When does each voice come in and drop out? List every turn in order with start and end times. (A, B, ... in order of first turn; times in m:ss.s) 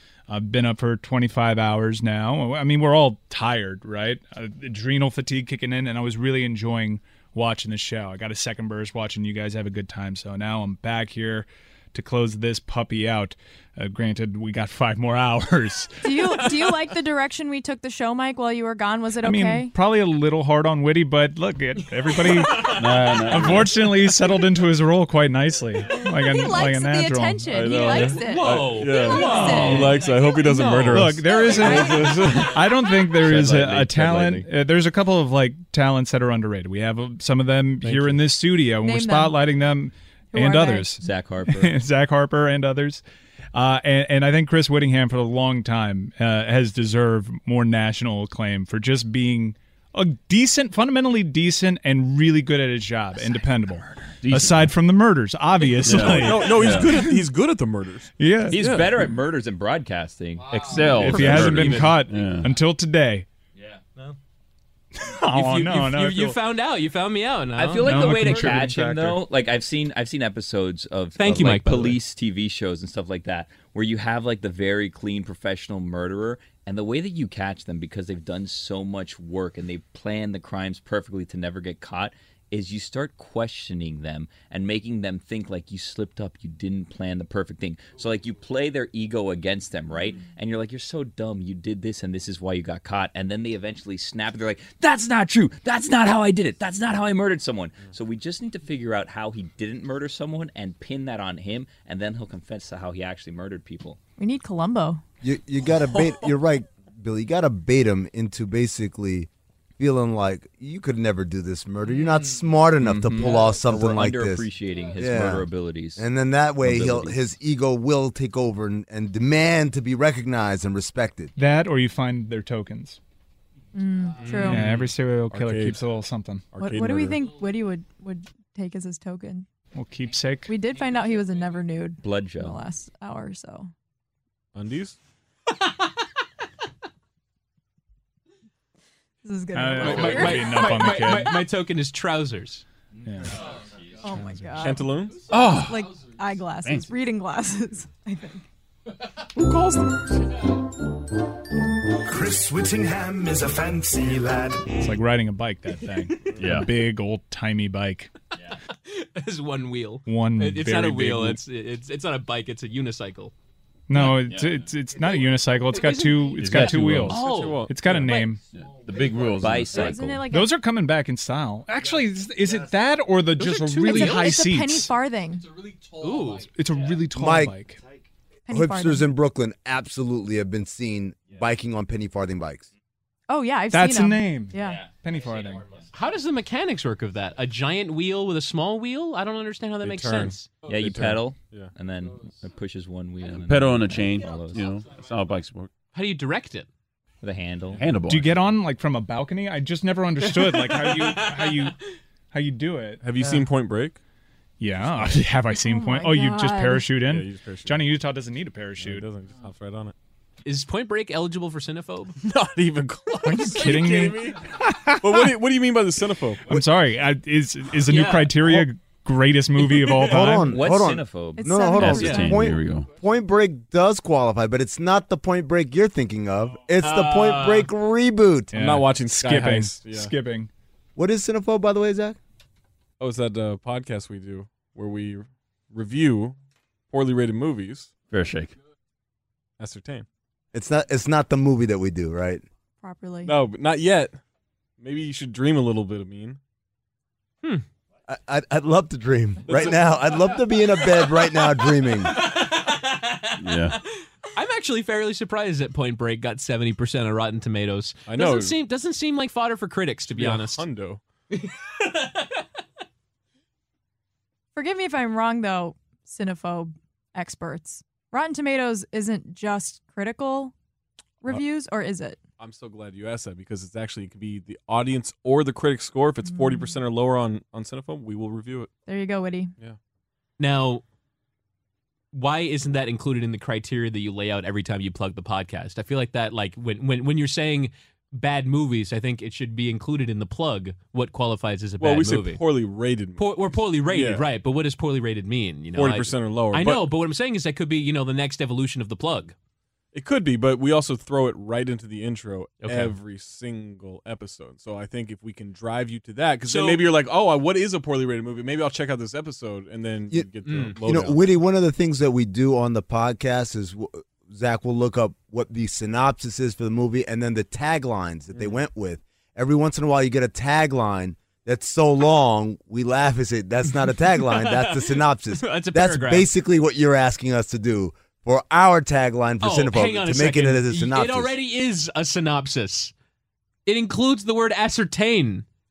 0:00.3-0:16.6 A
0:16.0-0:19.7 B
0:19.2-0:27.6 A
0:22.6-0:24.0 C
0:26.0-0:29.9 B
0:27.5-0:32.6 D
0:27.8-0:31.1 E
0:29.6-0:29.9 A
0:30.9-0:43.0 A
0:31.6-0:32.1 B
0:33.2-0:34.4 C
0:33.3-0:33.8 F
0:37.8-0:38.2 D
0:38.8-0:39.4 B
0:40.3-0:40.9 B
0:41.0-0:41.8 F
0:43.5-0:57.2 A
0:54.2-0:54.7 C
0:55.8-0:56.9 C
0:55.9-0:58.9 D
0:58.2-0:58.7 A
0:58.5-1:00.7 F
1:00.5-1:02.5 C
1:00.7-1:02.0 E
1:00.7-1:03.2 A
1:03.6-1:03.8 F
1:05.0-1:06.4 A
1:05.3-1:08.5 E
1:07.6-1:44.0 F
1:07.8-1:09.2 A
1:11.2-1:12.0 E
1:44.2-1:45.0 B
1:45.2-1:54.4 G
1:52.8-1:56.0 F
1:55.0-2:01.3 G
1:56.6-1:57.2 F
2:01.4-2:03.0 A
2:03.7-2:04.7 B
2:04.2-2:04.9 E
2:04.4-2:06.4 A
2:05.3-2:05.8 D
2:06.5-2:07.2 D
2:06.6-2:09.4 B
2:09.7-2:10.5 A
2:10.5-2:13.7 B
2:12.0-2:12.6 F
2:14.5-2:15.0 D
2:19.2-2:20.7 B
2:19.5-2:21.4 A
2:19.8-2:22.6 E
2:23.0-2:23.4 A
2:24.0-2:24.8 B
2:24.6-2:25.3 D
2:25.2-2:25.9 C
2:25.4-2:28.4 B
2:26.6-2:26.9 C
2:29.4-2:29.9 D
2:32.0-2:34.7 H
2:34.8-2:38.1 A
2:36.4-2:36.7 C
2:38.9-2:43.3 E
2:40.0-2:41.4 A
2:43.9-2:48.4 A
2:44.1-2:44.6 C
2:45.7-2:47.6 E
2:46.4-2:47.2 C
2:47.1-2:48.1 D
2:48.5-2:50.0 C
2:49.4-2:50.2 F
2:49.7-2:50.5 B
2:50.3-2:54.9 A
2:53.4-2:54.4 E
2:53.8-2:55.5 B
2:56.0-2:56.5 E
2:56.4-2:57.8 A
2:57.1-2:57.5 G
2:58.5-2:59.1 B
2:58.5-3:02.7 G
3:03.3-3:04.8 B
3:03.7-3:05.7 A
3:04.6-3:05.8 F
3:05.9-3:10.6 E
3:09.8-3:11.7 D
3:10.6-3:14.7 F
3:13.2-3:15.7 C
3:15.9-3:16.7 E
3:17.2-3:17.8 F
3:17.8-3:18.6 C
3:18.0-3:21.8 A
3:20.2-3:21.6 E
3:22.3-3:23.0 A
3:23.0-3:24.0 D
3:24.6-3:29.1 A
3:25.6-3:26.9 B
3:27.0-3:27.9 D
3:28.8-3:29.9 D
3:30.4-3:32.2 E
3:32.2-3:34.4 D
3:33.2-3:35.4 A
3:35.0-3:36.5 D
3:36.5-3:40.6 A
3:37.9-3:38.6 E
3:40.0-3:48.5 G
3:40.3-3:41.6 F
3:41.4-3:42.4 B
3:41.7-3:42.9 C
3:46.8-3:47.7 E
3:48.5-3:50.5 A
3:48.5-3:50.1 D
3:51.0-3:52.2 G
3:53.0-3:56.4 D
3:56.9-3:57.9 D
3:58.1-3:58.5 C
3:59.6-4:00.0 D
4:00.5-4:02.4 G
4:02.8-4:03.3 B
4:03.2-4:04.2 D
4:04.8-4:06.4 D
4:08.1-4:12.2 G
4:09.4-4:10.3 D
4:13.4-4:13.8 C
4:14.3-4:20.6 E
4:18.0-4:18.6 D
4:20.1-4:21.0 D
4:24.5-4:30.5 B
4:31.2-4:32.2 B
4:32.4-4:38.7 D
4:36.3-4:36.7 B
4:38.9-4:39.5 B
4:40.4-4:40.8 E
4:42.1-4:52.4 E
4:51.8-4:53.3 D
4:53.2-4:59.3 E
4:53.9-4:54.2 D
4:55.7-4:56.9 D
4:59.9-5:11.2 D
5:02.6-5:03.0 E
5:06.4-5:06.9 E
5:10.1-5:31.3 G
5:10.4-5:10.8 E
5:18.3-5:18.6 D
5:24.2-5:26.3 E
5:29.4-5:32.9 E
5:33.6-5:35.4 E